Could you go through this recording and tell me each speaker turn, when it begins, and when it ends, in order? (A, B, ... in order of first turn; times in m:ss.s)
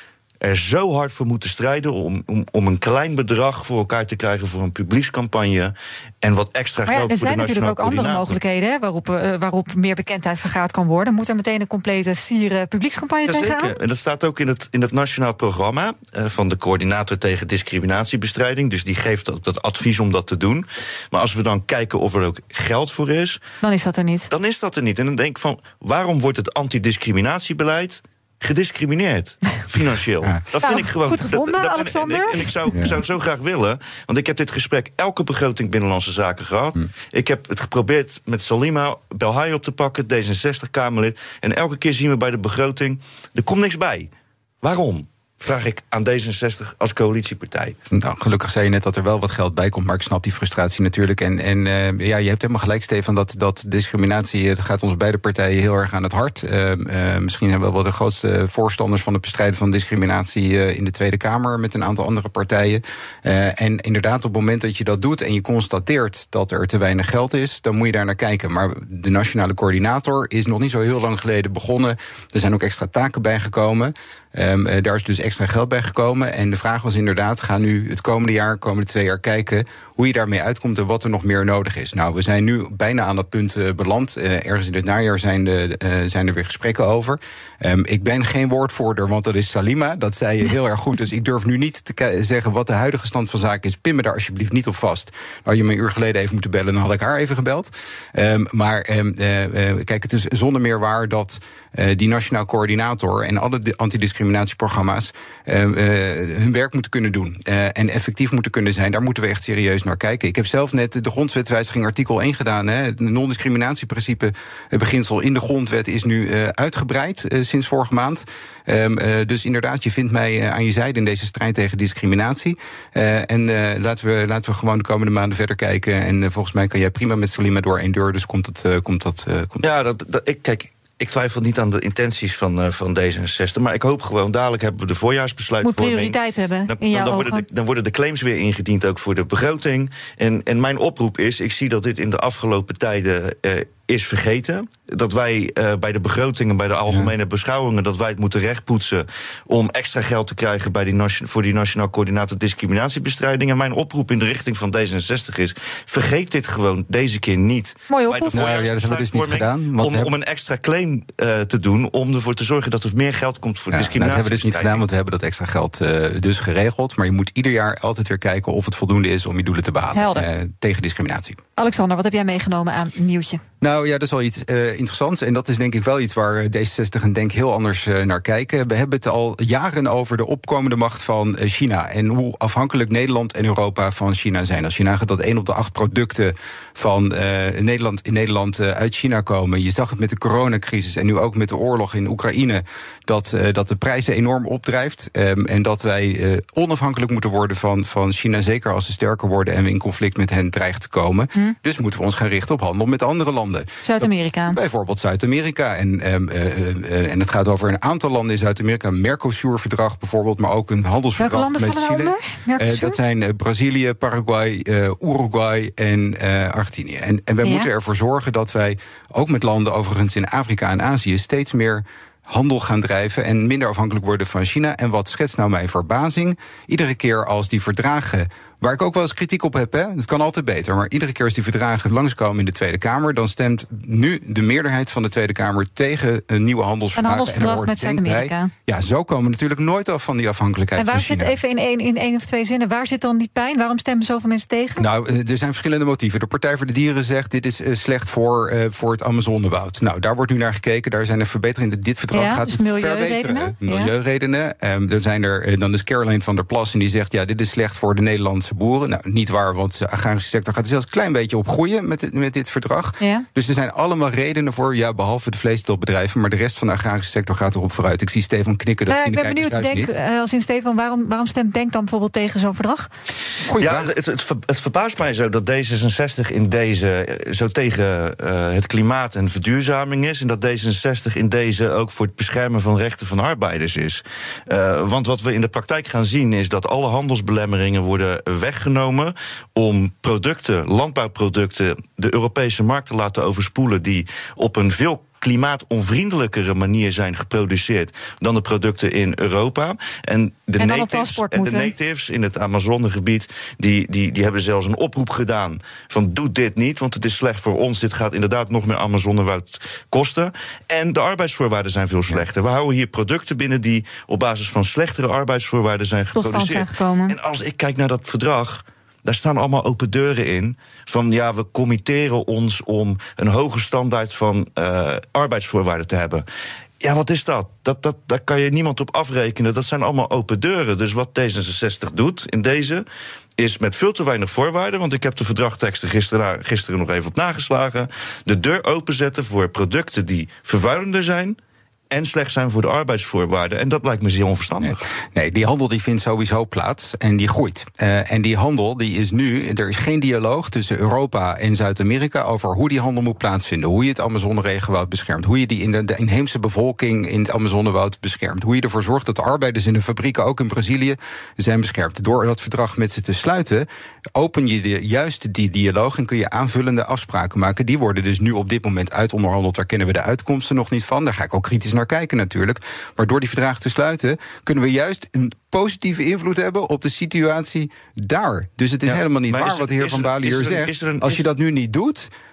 0:00.4-0:08.4 A
0:06.9-0:13.8 B
0:13.3-0:23.4 A
0:23.6-0:24.3 B
0:24.3-0:44.1 A
0:30.6-0:32.5 B
0:32.7-0:33.0 C
0:44.6-0:47.8 A
0:47.9-2:09.6 C
2:09.6-2:16.2 A
2:15.6-2:17.5 B
2:16.7-2:44.8 A
2:37.9-2:38.5 B
2:38.3-2:40.1 C
2:43.7-2:51.4 C
2:49.9-2:50.3 B
2:51.6-2:53.4 B
2:53.6-4:01.4 C
3:23.8-3:24.6 B
3:31.2-3:33.0 B
3:37.4-3:37.7 B
3:57.0-3:58.5 B
4:00.8-4:04.9 B
4:04.8-4:29.9 C
4:12.1-4:13.9 B
4:23.0-4:23.3 B
4:28.9-4:32.9 B
4:33.5-4:33.9 C
4:33.6-5:26.2 A
5:00.6-5:01.7 B
5:16.2-5:17.2 B
5:26.8-5:32.8 A
5:33.4-5:41.4 A
5:41.9-5:44.8 A
5:44.6-6:22.1 C
6:18.9-6:21.2 A